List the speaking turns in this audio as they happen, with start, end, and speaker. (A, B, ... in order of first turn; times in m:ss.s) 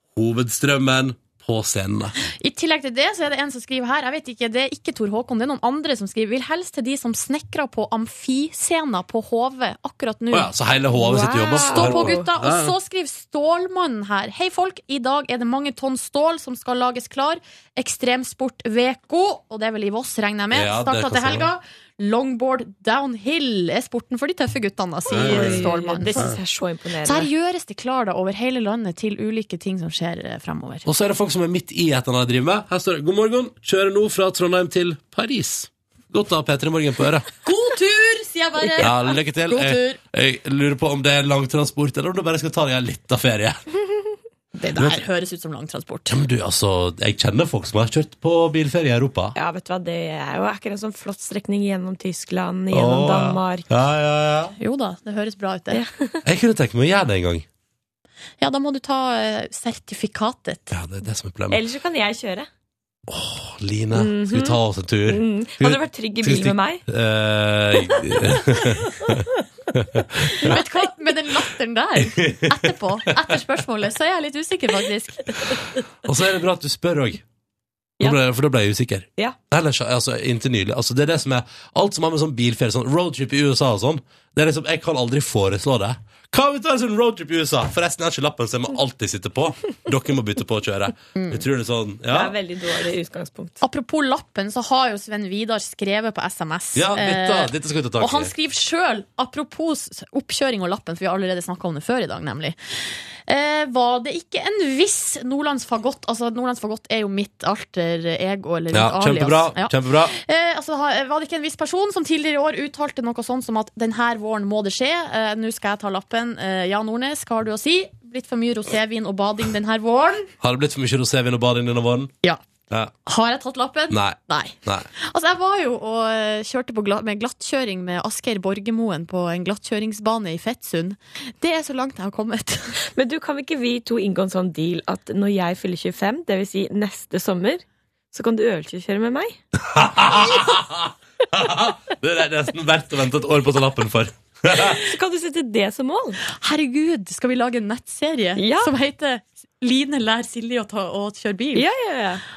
0:00.2-0:02.2 A
0:02.3-0:26.4 B
0:10.3-0:12.8 A
0:11.0-0:12.3 C
0:20.5-0:21.5 A
0:25.1-0:27.3 C
0:25.1-0:26.4 A
0:27.0-0:30.9 B
0:30.9-0:37.3 A
0:37.4-0:40.0 B
0:38.6-0:38.9 C
0:38.8-0:43.6 A
0:44.6-0:46.2 B
0:44.8-0:45.0 A
0:46.1-0:49.4 A
0:49.4-0:53.7 C
0:52.7-0:54.6 A
0:54.6-0:55.8 B
0:55.7-0:56.2 C
0:56.2-0:57.5 A
0:58.4-1:00.8 B
1:00.7-1:01.6 A
1:01.5-1:02.5 C
1:03.1-1:10.6 A
1:03.9-1:06.8 C
1:07.8-1:09.4 C
1:10.4-1:10.9 C
1:10.4-1:15.5 B
1:12.0-1:12.7 A
1:15.3-1:15.6 C
1:16.0-1:17.2 A
1:18.0-1:32.4 A
1:31.2-1:31.4 B
1:32.1-1:33.6 C
1:33.6-2:00.3 B
1:36.8-1:38.3 A
1:48.7-1:50.1 A
2:00.4-2:02.1 A
2:03.0-2:12.8 B
2:03.9-2:04.9 A
2:12.8-2:19.4 C
2:19.6-2:24.8 A
2:24.6-2:26.2 C
2:26.3-2:31.7 B
2:28.4-2:28.7 C
2:31.5-2:32.2 C